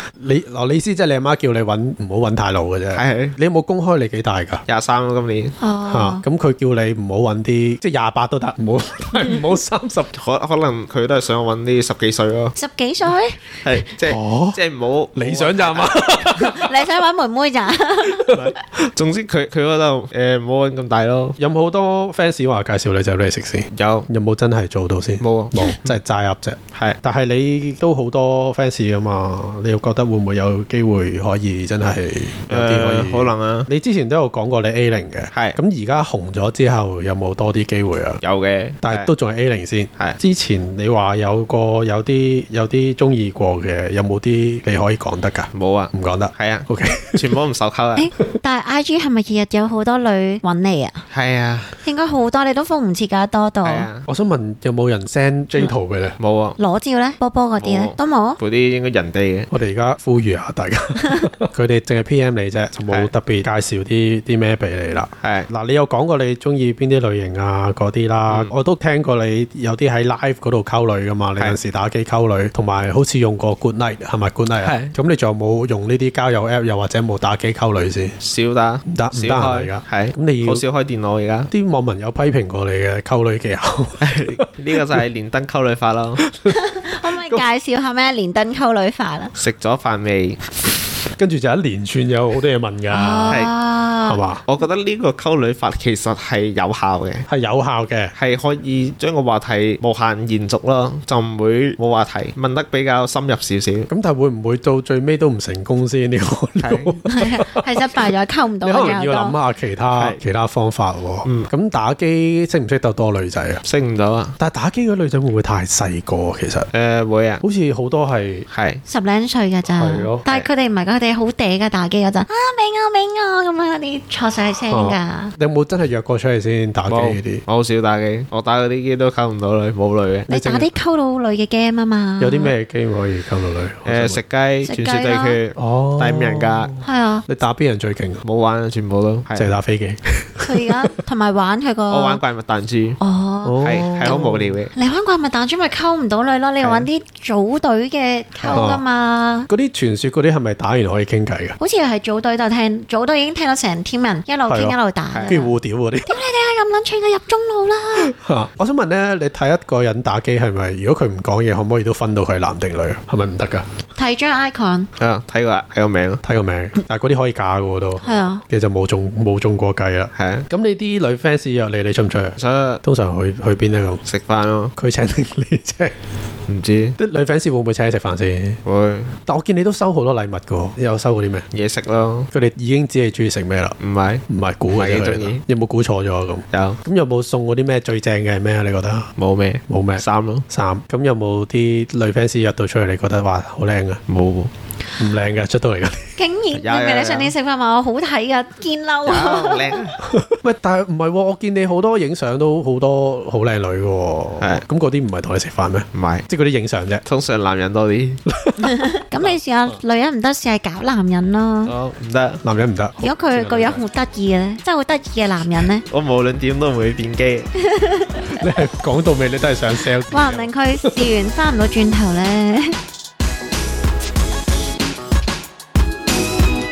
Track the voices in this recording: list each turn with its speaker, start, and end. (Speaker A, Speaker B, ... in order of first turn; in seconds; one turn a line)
Speaker A: 0.2-4.6
Speaker B: 2.9-3.4
Speaker B: 4.7-5.5
Speaker C: 5.6-6.2
Speaker A: 5.9-10.1
Speaker B: 10.1-12.6
Speaker C: 12.6-13.4
Speaker B: 13.6-16.2
Speaker A: 14.1-14.6
Speaker A: 15.1-16.8
Speaker C: 16.4-18.3
Speaker A: 18.1-18.5
Speaker B: 18.3-21.4
Speaker A: 21.4-38.2
Speaker B: 23.7-24.1
Speaker B: 25.2-25.9
Speaker B: 32.5-33.7
Speaker B: 35.3-35.6
Speaker B: 38.2-39.1
Speaker A: 38.8-47.3
Speaker B: 45.5-48.1
Speaker C: 48.0-51.0
Speaker B: 51.1-51.8
Speaker C: 51.8-53.9
Speaker B: 53.6-54.1
Speaker A: 54.1-56.2
Speaker B: 56.2-56.6
Speaker C: 56.6-58.4
Speaker B: 57.6-59.5
Speaker A: 59.5-78.2
Speaker B: 65.2-65.5
Speaker B: 74.6-74.9
Speaker B: 78.2-81.5
Speaker A: 78.9-80.6
Speaker A: 81.5-84.9
Speaker B: 84.0-86.2
Speaker A: 86.3-87.5
Speaker C: 86.5-89.3
Speaker B: 89.4-90.4
Speaker A: 91.2-93.5
Speaker C: 92.9-94.2
Speaker A: 94.0-94.4
Speaker B: 94.5-97.3
Speaker A: 97.3-98.1
Speaker B: 98.2-103.9
Speaker A: 103.9-108.0
Speaker B: 106.6-107.0
Speaker C: 107.1-109.3
Speaker A: 108.6-113.6
Speaker B: 109.9-110.2
Speaker B: 111.2-111.5
Speaker B: 113.6-114.4
Speaker A: 114.4-116.7
Speaker B: 116.7-117.4
Speaker A: 117.4-118.5
Speaker B: 118.5-118.8
Speaker C: 118.9-125.3
Speaker A: 119.7-120.2
Speaker A: 124.7-127.4
Speaker B: 126.9-130.3
Speaker C: 130.3-132.5
Speaker A: 130.3-130.7
Speaker A: 132.2-134.2
Speaker B: 133.9-136.7
Speaker C: 134.7-135.4
Speaker A: 135.6-138.2
Speaker C: 136.8-137.3
Speaker B: 138.2-139.5
Speaker A: 139.3-140.4
Speaker C: 140.4-142.2
Speaker B: 141.9-143.0
Speaker C: 143.0-149.5
Speaker A: 143.4-144.5
Speaker B: 143.6-144.7
Speaker B: 148.4-148.6
Speaker A: 148.5-148.8
Speaker A: 149.5-151.6
Speaker C: 151.6-155.5
Speaker A: 154.5-156.1
Speaker B: 155.1-155.4
Speaker C: 156.1-158.1
Speaker A: 158.0-163.7
Speaker C: 164.0-164.9
Speaker B: 165.0-166.2
Speaker A: 166.2-174.0
Speaker C: 168.0-168.4
Speaker B: 170.2-170.5
Speaker B: 172.4-172.8
Speaker B: 174.1-174.7
Speaker A: 174.8-176.0
Speaker B: 176.5-177.0
Speaker A: 177.0-178.6
Speaker B: 178.7-179.2
Speaker A: 179.3-181.5
Speaker B: 181.5-182.3
Speaker A: 182.3-183.8
Speaker B: 183.8-185.4
Speaker A: 184.3-189.1
Speaker B: 186.5-186.8
Speaker B: 189.2-190.4
Speaker A: 189.7-194.0
Speaker B: 194.1-194.5
Speaker A: 195.0-196.2
Speaker C: 196.2-199.8
Speaker B: 196.5-197.3
Speaker B: 199.1-200.0
Speaker A: 200.0-207.0
Speaker B: 205.9-206.3
Speaker B: 207.1-208.2
Speaker A: 208.3-208.7
Speaker C: 208.6-211.7
Speaker B: 211.7-212.4
Speaker A: 212.4-213.8
Speaker C: 213.0-215.8
Speaker B: 215.9-217.5
Speaker C: 217.6-218.3
Speaker A: 218.3-221.1
Speaker C: 220.1-222.8